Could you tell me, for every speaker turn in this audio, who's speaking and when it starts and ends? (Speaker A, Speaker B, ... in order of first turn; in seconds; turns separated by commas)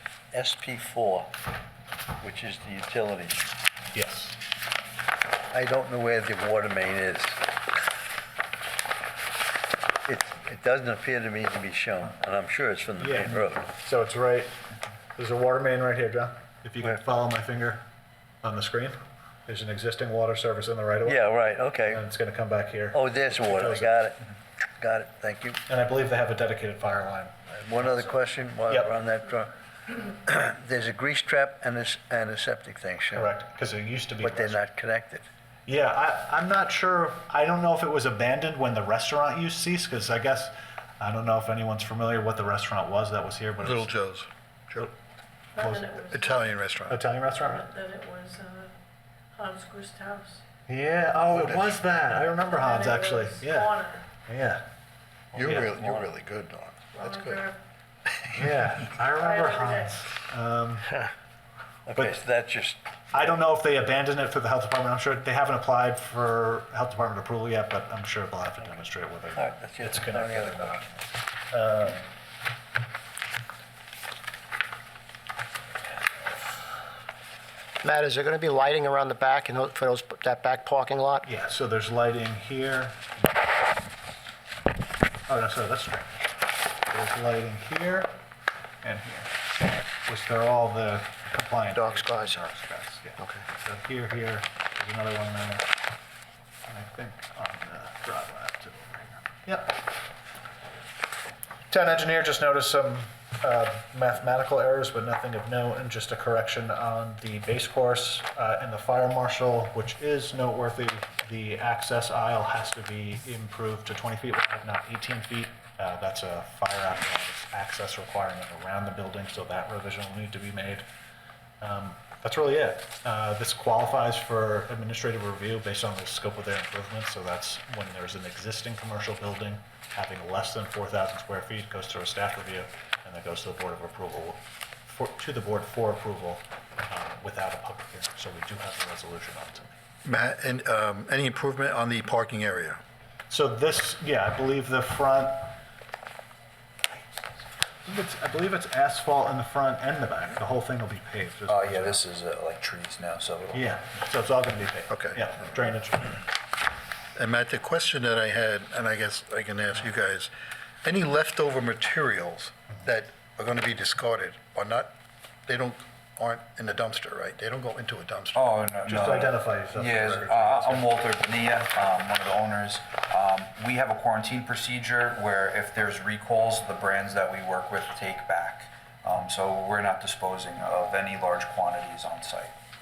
Speaker A: 0.3-1.3, Speaker A: 2.2-3.5, Speaker B: 3.9-4.4, Speaker A: 5.5-7.4, Speaker A: 10.0-13.7, Speaker B: 13.0-14.6, Speaker B: 15.1-17.8, Speaker B: 18.4-24.1, Speaker A: 21.0-22.0, Speaker A: 22.9-24.2, Speaker A: 24.8-25.6, Speaker B: 25.7-28.9, Speaker A: 27.6-29.5, Speaker A: 30.1-33.3, Speaker B: 33.1-34.6, Speaker A: 34.2-35.3, Speaker B: 35.7-43.9, Speaker C: 43.6-44.9, Speaker D: 45.5-46.5, Speaker B: 45.6-45.9, Speaker C: 46.1-47.0, Speaker B: 46.9-47.6, Speaker D: 47.4-48.7, Speaker D: 49.3-50.4, Speaker B: 50.7-53.7, Speaker C: 51.3-51.6, Speaker D: 52.5-54.1, Speaker B: 54.3-54.6, Speaker B: 55.3-56.1, Speaker C: 55.3-57.4, Speaker D: 56.9-57.6, Speaker B: 58.3-61.0, Speaker D: 59.2-60.1, Speaker A: 61.9-63.3, Speaker B: 61.9-62.2, Speaker B: 63.1-72.0, Speaker A: 69.3-70.9, Speaker E: 77.8-81.3, Speaker B: 81.2-83.3, Speaker B: 85.3-86.3, Speaker B: 86.9-88.1, Speaker B: 88.8-89.3, Speaker B: 90.0-95.7, Speaker E: 91.7-92.4, Speaker E: 93.2-93.4, Speaker B: 96.7-99.8, Speaker B: 101.7-120.8, Speaker B: 121.6-139.8, Speaker C: 140.0-142.8, Speaker B: 143.3-145.5, Speaker B: 147.8-152.1, Speaker F: 151.5-153.9, Speaker B: 153.5-156.3, Speaker C: 154.9-155.2, Speaker C: 157.2-160.3, Speaker C: 160.8-164.9, Speaker C: 165.5-168.6, Speaker F: 168.3-182.5, Speaker B: 168.8-170.9